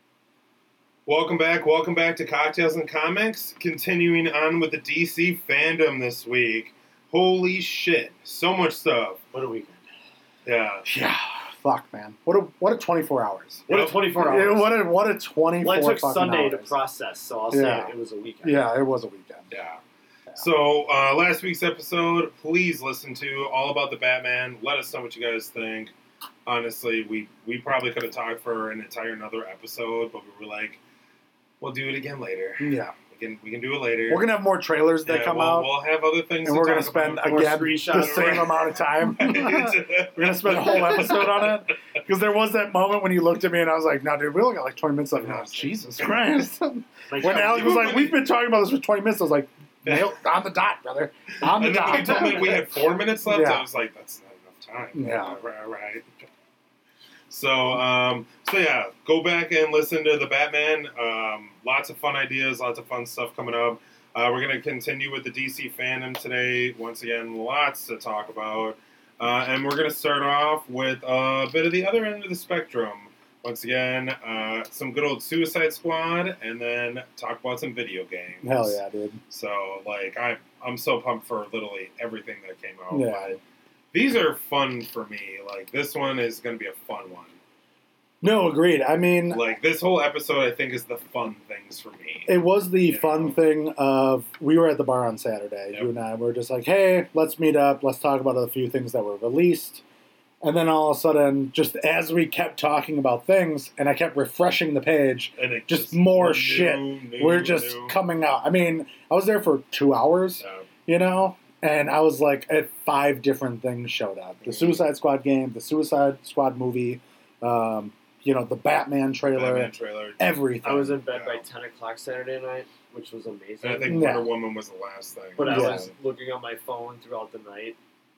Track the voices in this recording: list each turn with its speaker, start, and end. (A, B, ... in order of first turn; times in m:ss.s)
0:01.1-0:09.2 A
0:09.3-0:09.8 B
0:10.5-0:10.8 A
0:10.8-0:16.7 C
0:13.7-0:14.1 A
0:13.7-0:14.8 B
0:15.6-0:18.6 B
0:17.5-0:17.9 C
0:18.4-0:19.5 C
0:19.5-0:19.8 A
0:20.4-0:25.9 A
0:26.5-0:30.8 A
0:31.6-0:34.3 A
0:32.6-0:32.9 C
0:34.1-0:35.7 C
0:35.0-0:41.7 A
0:36.4-0:52.7 C
0:37.2-0:38.7 B
0:45.2-0:46.4 A
0:47.1-0:48.0 B
0:47.2-0:48.2 A
0:49.8-0:50.2 A
0:51.4-0:56.0 A
0:53.2-0:53.7 C
0:55.0-0:55.4 C
0:57.3-1:18.8 A
1:18.4-1:19.2 C
1:19.3-1:23.4 A
1:22.9-1:23.4 C
1:23.9-1:27.4 A
1:28.2-1:29.5 C
1:29.3-1:33.4 A
1:32.3-1:39.8 C
1:40.4-2:01.0 C
1:45.4-1:48.0 A
1:50.4-1:50.7 A
1:54.4-1:54.9 A
1:59.3-2:00.3 A
2:00.6-2:04.2 B
2:01.1-2:01.5 A
2:03.6-2:05.9 A
2:03.9-2:04.3 C
2:05.4-2:07.8 B
2:05.4-2:05.9 C